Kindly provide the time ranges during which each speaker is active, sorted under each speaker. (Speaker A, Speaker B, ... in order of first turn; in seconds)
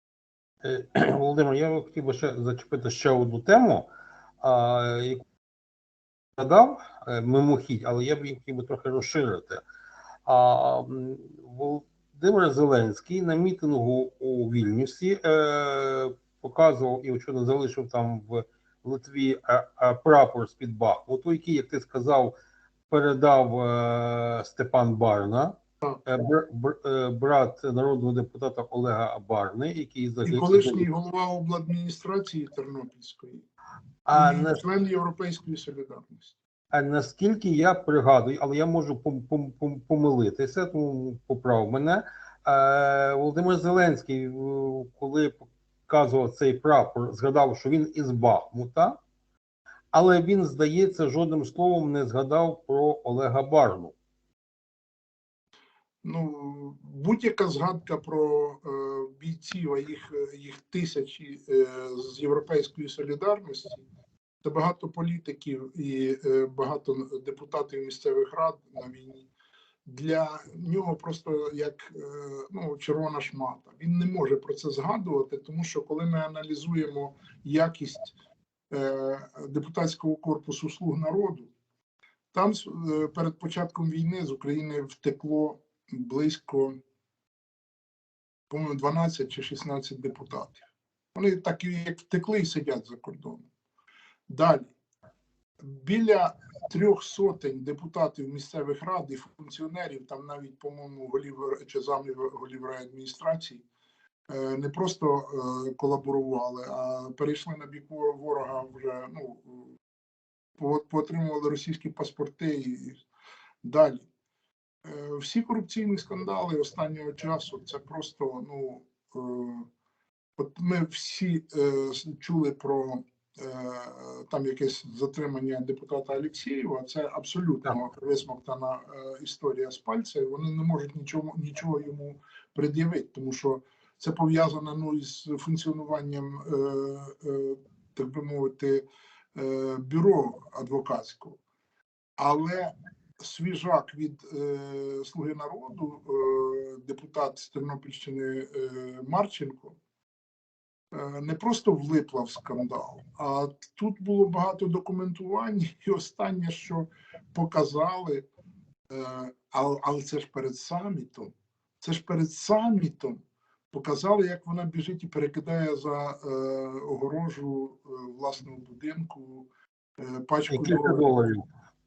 Speaker A: 0.6-3.9, 4.4-5.2, 6.4-9.6, 10.3-22.4, 22.9-30.9, 34.1-34.6, 36.7-49.0, 49.9-54.0, 170.5-171.4
Speaker B: 30.2-33.5, 34.1-36.4, 56.0-63.9, 64.4-69.3, 69.9-78.2, 78.7-81.5, 82.3-86.8, 88.5-93.5, 94.3-94.8, 95.6-103.6, 104.3-109.8, 110.6-113.0, 113.6-114.1, 114.8-119.7, 120.4-141.4, 142.2-149.8, 150.9-158.3, 158.9-171.1